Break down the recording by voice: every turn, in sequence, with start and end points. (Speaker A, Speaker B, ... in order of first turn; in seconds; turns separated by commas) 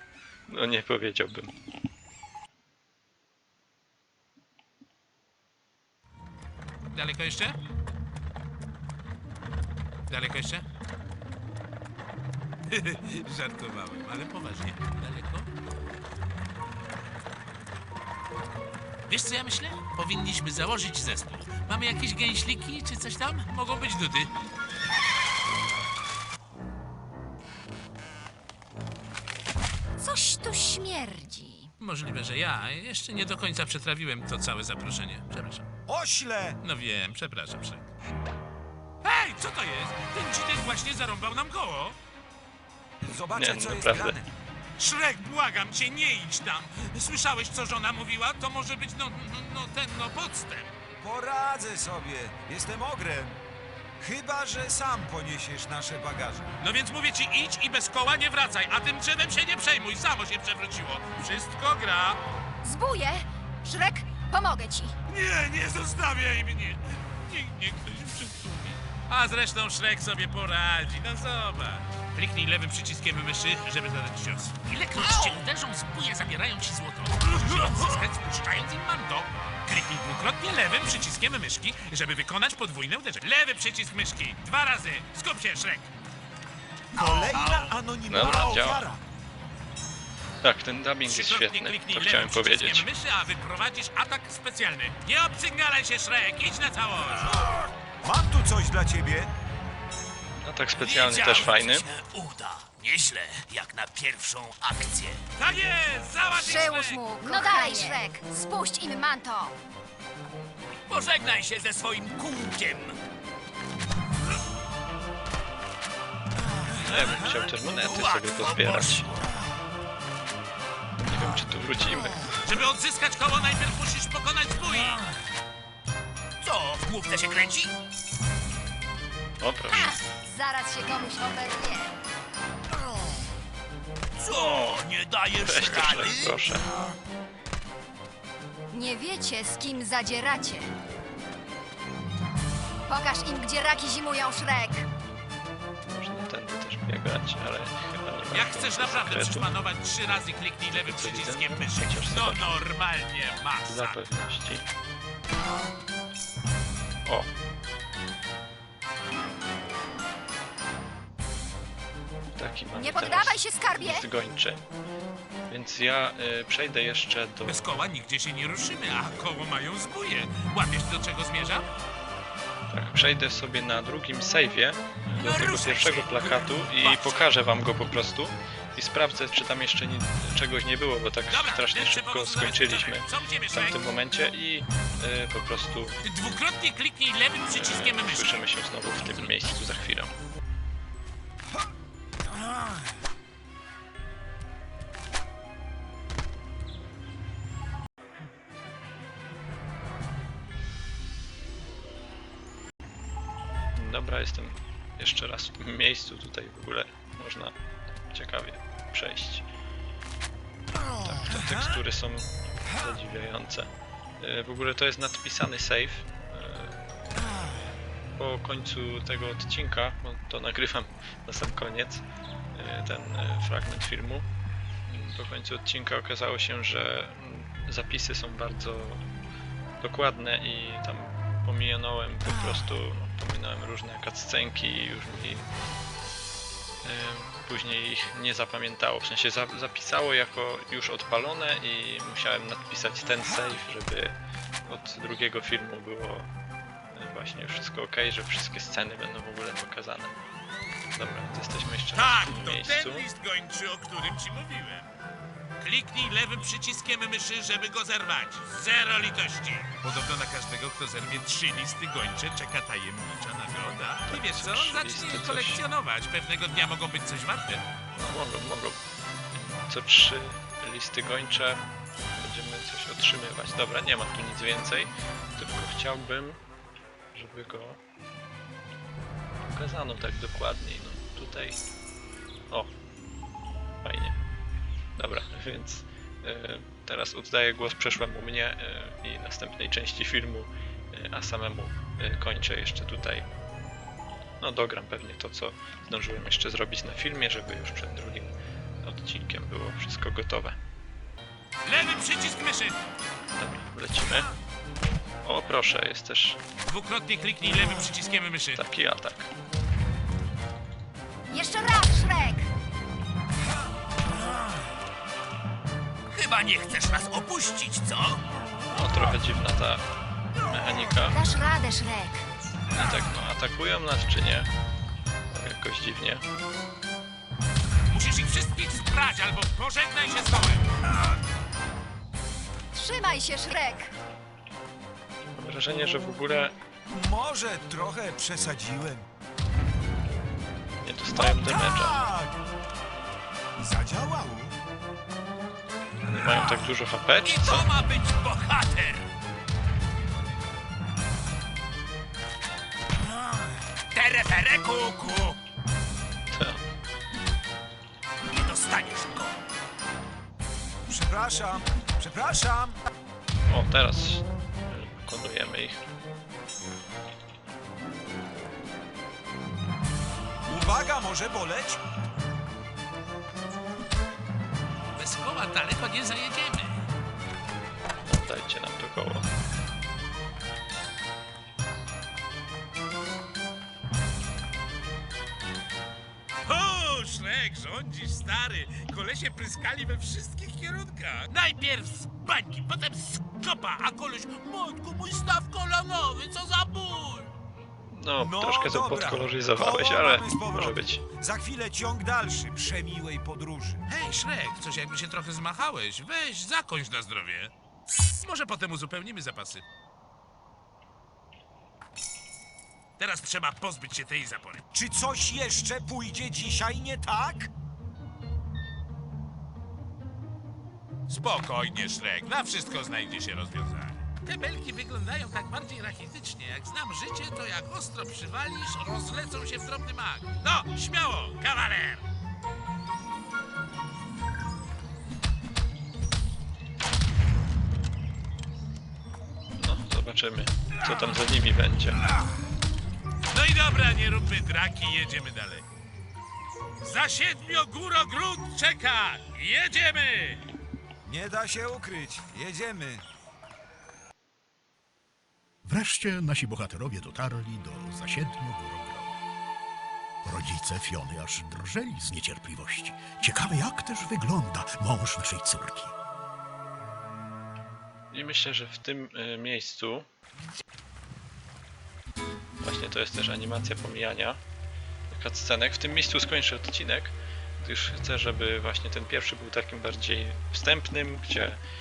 Speaker A: 0.5-1.5, Speaker B: 6.9-7.6, Speaker B: 10.1-10.7, Speaker B: 12.7-15.5, Speaker B: 19.1-24.3, Speaker C: 30.0-31.7, Speaker B: 31.8-35.7, Speaker D: 35.9-36.6, Speaker B: 36.6-37.9, Speaker B: 39.0-42.0, Speaker D: 43.0-44.3, Speaker A: 43.4-44.2, Speaker B: 44.8-50.7, Speaker D: 51.0-53.4, Speaker D: 54.0-56.5, Speaker B: 56.6-62.2, Speaker C: 62.6-64.9, Speaker B: 65.1-85.9, Speaker E: 74.7-76.1, Speaker E: 77.2-78.0, Speaker D: 86.9-89.0, Speaker B: 87.3-87.7, Speaker A: 88.1-88.9, Speaker A: 90.4-92.9, Speaker B: 91.1-97.5, Speaker D: 98.0-99.3, Speaker A: 100.4-101.9, Speaker E: 100.8-105.3, Speaker B: 105.3-107.0, Speaker C: 106.3-109.5, Speaker E: 110.9-113.0, Speaker A: 116.8-119.1, Speaker E: 117.0-119.3, Speaker A: 121.1-122.2, Speaker B: 122.4-125.0, Speaker E: 124.7-125.1, Speaker E: 126.4-127.7, Speaker A: 129.4-129.9, Speaker C: 129.7-131.9, Speaker E: 134.2-136.5, Speaker A: 134.3-134.8, Speaker A: 135.4-136.7, Speaker C: 138.7-140.7, Speaker C: 142.9-144.9, Speaker A: 145.8-149.5, Speaker B: 148.3-154.0, Speaker A: 150.7-152.6, Speaker A: 153.7-154.7, Speaker A: 162.4-164.7, Speaker C: 162.8-164.1, Speaker A: 165.5-167.7, Speaker B: 167.5-171.7, Speaker A: 172.7-186.0, Speaker E: 175.2-177.2, Speaker B: 181.3-183.8, Speaker B: 186.1-189.5, Speaker A: 187.5-190.1, Speaker A: 203.8-207.6, Speaker A: 208.1-209.5, Speaker A: 211.0-216.8, Speaker A: 218.2-224.3, Speaker A: 224.9-229.0, Speaker A: 229.8-235.5, Speaker A: 236.8-246.3, Speaker A: 246.9-250.1, Speaker A: 250.9-253.1, Speaker B: 251.9-254.9, Speaker B: 255.6-267.6, Speaker A: 264.1-265.6, Speaker A: 267.9-268.8, Speaker A: 269.3-271.6, Speaker A: 272.1-276.4, Speaker A: 277.1-277.8, Speaker A: 279.5-281.6, Speaker A: 283.8-284.2, Speaker A: 285.0-293.3, Speaker A: 294.4-300.6, Speaker B: 301.7-302.8, Speaker A: 303.3-304.3, Speaker A: 305.2-306.4, Speaker B: 306.7-308.6, Speaker A: 308.6-309.3, Speaker C: 311.3-312.5, Speaker E: 316.1-318.2, Speaker A: 318.7-319.8, Speaker A: 320.5-321.2, Speaker C: 321.1-322.3, Speaker A: 322.7-324.5, Speaker A: 325.3-326.2, Speaker B: 327.9-330.7, Speaker C: 332.7-333.9, Speaker A: 335.4-336.6, Speaker D: 336.9-339.1, Speaker A: 340.8-342.1, Speaker D: 341.1-342.4, Speaker D: 343.6-344.5, Speaker A: 346.0-347.7, Speaker E: 347.2-349.1, Speaker E: 353.9-355.4, Speaker A: 356.3-356.6, Speaker E: 358.3-359.4, Speaker D: 360.9-362.8, Speaker A: 363.5-365.8, Speaker D: 370.5-371.8, Speaker B: 375.0-376.9, Speaker A: 378.1-379.3, Speaker B: 386.5-397.3, Speaker A: 397.9-401.0, Speaker D: 398.2-403.8, Speaker B: 403.9-409.6, Speaker B: 413.0-414.6, Speaker D: 414.7-417.5, Speaker B: 421.1-432.0, Speaker A: 439.6-442.1, Speaker B: 443.3-445.6, Speaker B: 446.8-450.5, Speaker D: 451.1-453.0, Speaker F: 455.6-459.2, Speaker F: 460.2-465.9, Speaker A: 468.1-470.1, Speaker A: 472.6-474.4, Speaker A: 475.1-481.6